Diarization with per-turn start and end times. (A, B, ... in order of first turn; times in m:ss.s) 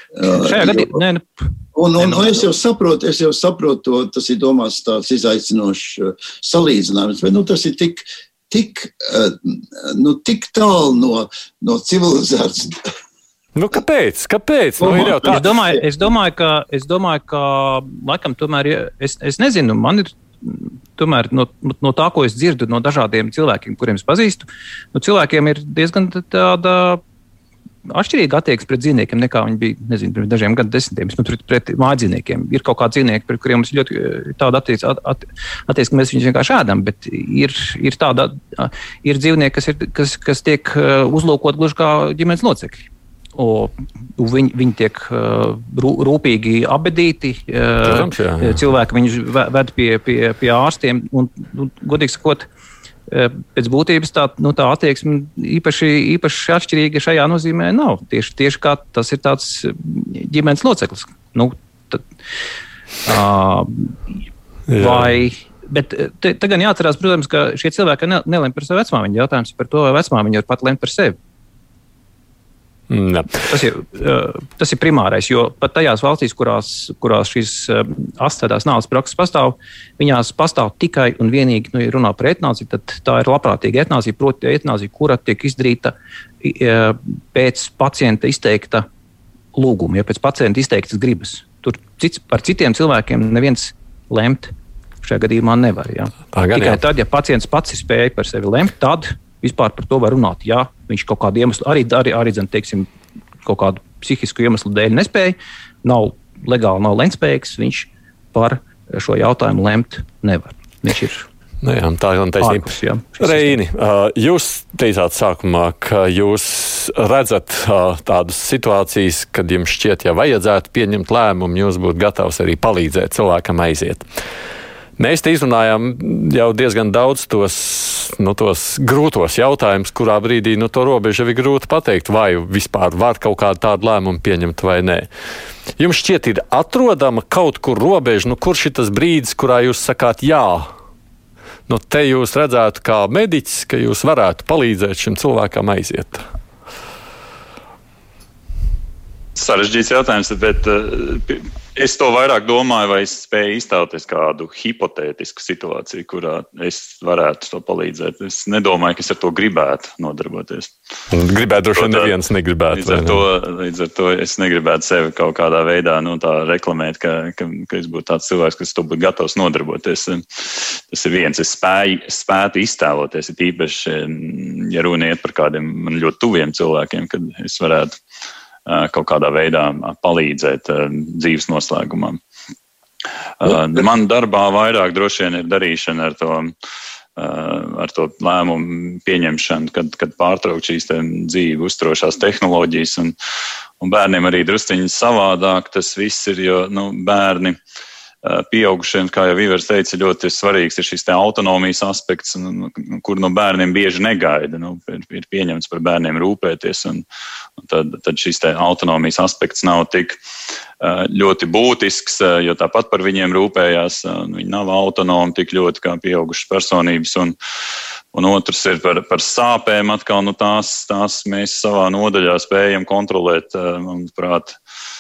0:00.1-0:01.0 A
0:00.2-0:01.4 B
0:01.7-0:12.9 A
0:02.0-0:02.4 B
0:13.5-0:15.5 C
0:14.8-0:15.8 A
0:15.2-0:27.0 B
0:27.8-0:52.4 B
0:47.8-0:48.6 C
0:53.1-1:02.0 B
1:03.0-1:04.0 B
1:04.7-1:05.0 C
1:04.7-1:11.2 B
1:12.9-1:13.3 C
1:13.5-1:28.9 B
1:29.5-1:42.9 B
1:36.3-1:36.8 C
1:43.4-1:51.3 B
1:51.6-2:04.0 C
1:52.4-1:53.6 B
2:05.0-2:15.1 C
2:15.8-2:20.7 C
2:21.7-2:26.2 C
2:29.3-2:40.7 D
2:41.1-2:43.2 C
2:41.7-2:42.1 D
2:42.7-2:58.0 D
2:58.6-3:02.2 D
3:03.4-3:06.5 D
3:07.2-3:13.1 D
3:13.8-3:17.6 D
3:18.2-3:27.0 D
3:27.6-3:30.2 D
3:30.8-3:37.3 D
3:38.1-3:44.6 D